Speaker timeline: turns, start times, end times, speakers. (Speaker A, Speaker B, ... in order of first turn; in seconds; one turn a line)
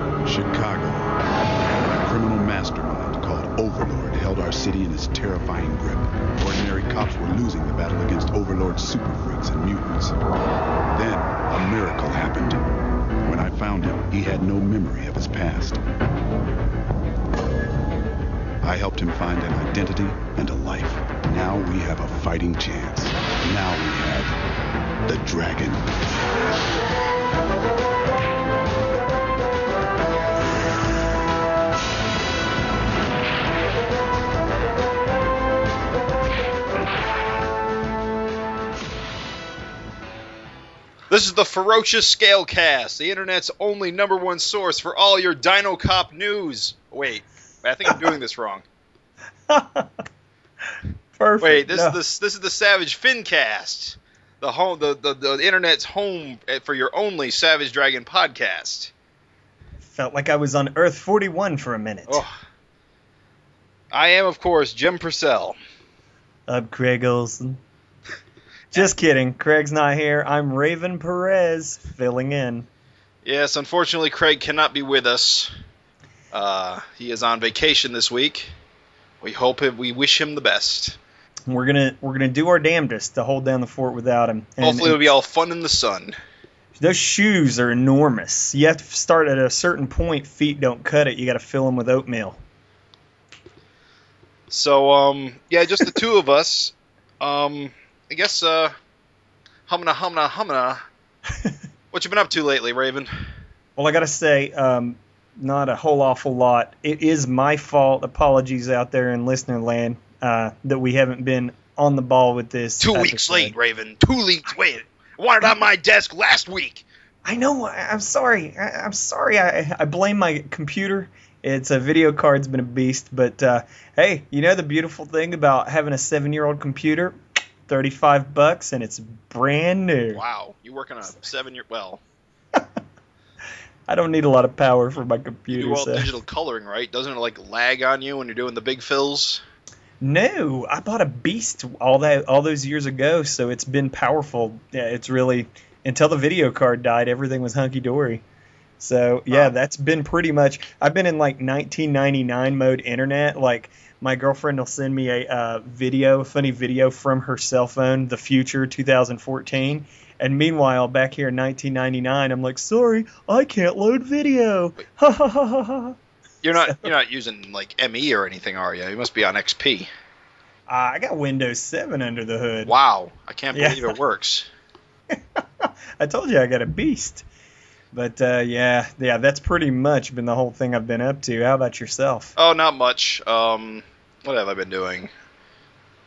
Speaker A: 0.2-1.2
Speaker A: 1.8-10.1
Speaker A: 10.9-12.6
Speaker A: 13.2-15.8
Speaker A: 18.6-24.4
Speaker A: 25.1-26.0
Speaker B: 41.1-48.6
Speaker C: 49.5-49.9
Speaker C: 51.2-52.0
Speaker B: 51.4-58.9
Speaker C: 59.8-62.2
Speaker B: 62.1-62.3
Speaker B: 63.9-65.6
Speaker C: 66.5-67.6
Speaker C: 68.7-72.7
Speaker B: 73.2-75.5
Speaker B: 76.3-78.5
Speaker B: 79.2-81.0
Speaker C: 81.5-85.0
Speaker B: 84.6-86.2
Speaker C: 86.8-92.4
Speaker B: 94.5-98.7
Speaker B: 99.7-100.8
Speaker B: 101.9-103.1
Speaker C: 103.8-113.5
Speaker B: 112.8-116.8
Speaker C: 117.2-127.1
Speaker C: 127.7-130.2
Speaker B: 130.1-132.0
Speaker C: 133.9-136.1
Speaker B: 135.5-139.4
Speaker C: 140.0-148.2
Speaker C: 148.8-165.9
Speaker B: 166.4-169.9
Speaker C: 170.7-172.7
Speaker B: 172.6-174.5
Speaker C: 173.5-173.9
Speaker C: 175.1-177.2
Speaker C: 177.9-182.3
Speaker B: 182.3-185.1